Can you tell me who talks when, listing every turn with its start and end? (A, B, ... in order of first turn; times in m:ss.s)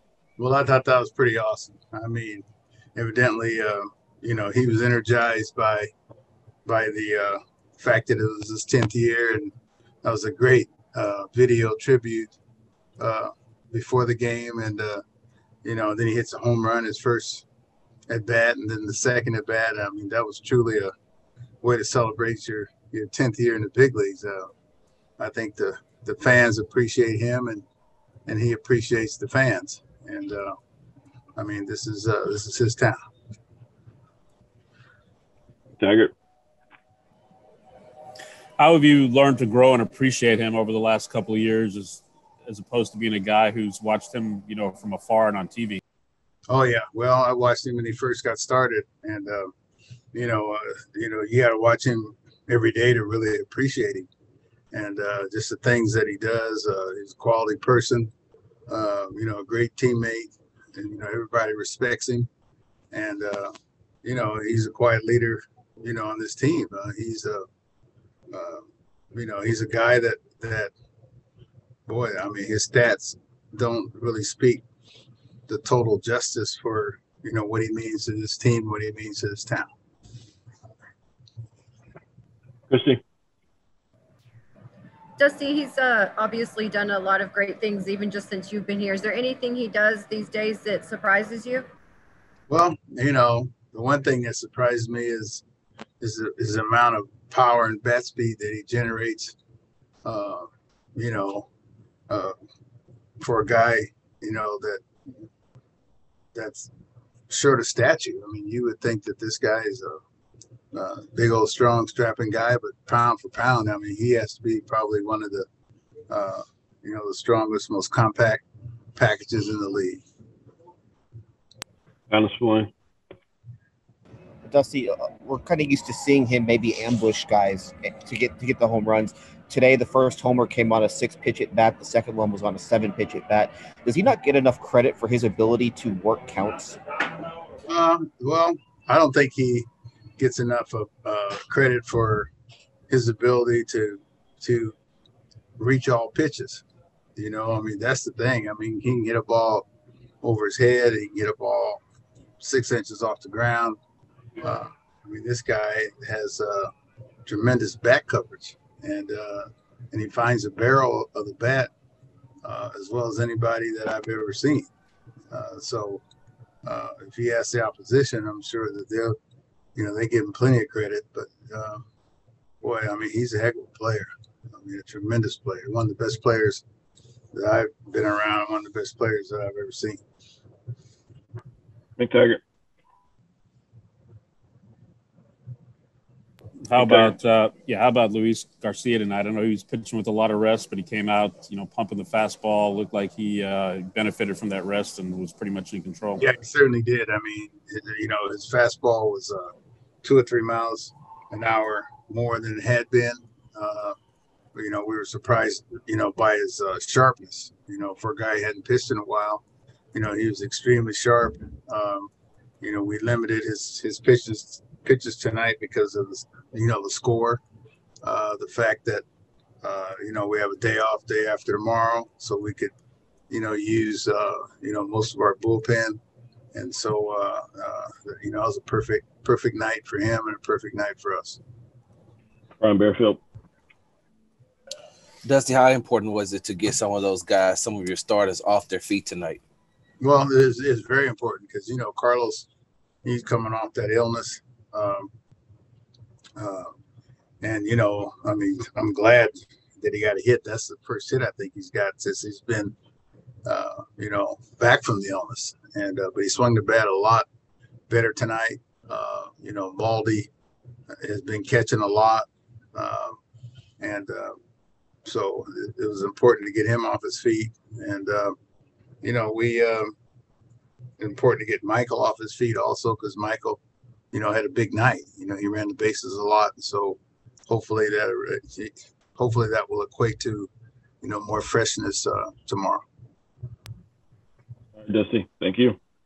0:00.4-0:05.9 A
0:06.6-0:09.5 A
0:10.0-0:12.4 A
0:13.0-0:15.0 A
0:15.6-0:17.4 A
0:18.1-0:20.9 A
0:21.6-0:24.5 A
0:25.2-0:27.6 A
0:28.3-0:30.6 A
0:31.4-0:33.0 A
0:35.8-0:36.1 B
0:38.6-0:45.8 C
0:46.5-0:49.5 A
0:50.1-0:54.1 A
0:54.7-0:58.1 A
0:58.7-1:02.3 A
1:02.9-1:07.4 A
1:08.3-1:10.7 A
1:11.9-1:14.6 A
1:15.5-1:19.7 A
1:22.7-1:23.0 B
1:25.2-1:31.7 D
1:32.5-1:35.4 A
1:36.0-1:39.4 A
1:40.0-1:41.5 A
1:42.1-1:42.3 A
1:43.2-1:44.8 A
1:46.3-1:46.7 A
1:47.3-1:50.0 A
1:50.7-1:55.5 A
1:56.1-2:00.0 A
2:02.1-2:02.7 B
2:04.4-2:16.8 E
2:17.6-2:22.3 A
2:22.9-2:24.8 A
2:25.6-2:26.6 A
2:27.2-2:29.7 A
2:30.2-2:31.8 A
2:32.4-2:33.8 A
2:34.4-2:36.7 A
2:37.2-2:41.7 A
2:42.4-2:44.7 A
2:45.3-2:46.0 A
2:46.6-2:49.2 A
2:49.7-2:51.8 A
2:52.6-2:56.6 A
2:57.3-3:00.0 A
3:02.0-3:02.4 B
3:06.7-3:16.2 C
3:06.8-3:07.1 B
3:16.2-3:19.5 A
3:20.0-3:23.9 A
3:24.5-3:32.1 A
3:32.6-3:37.4 A
3:38.0-3:39.0 A
3:39.6-3:42.7 A
3:43.3-3:46.0 A
3:46.5-3:51.4 A
3:52.6-3:53.2 B
3:55.2-3:59.4 F
4:00.0-4:02.5 A
4:03.0-4:05.1 A
4:06.4-4:06.7 A
4:07.4-4:12.7 A
4:13.4-4:17.3 A
4:17.9-4:20.3 A
4:20.9-4:23.2 A
4:23.8-4:24.4 A
4:25.0-4:28.4 A
4:29.0-4:29.9 A
4:31.0-4:33.6 A
4:34.1-4:40.5 A
4:41.0-4:42.8 A
4:44.8-4:45.8 B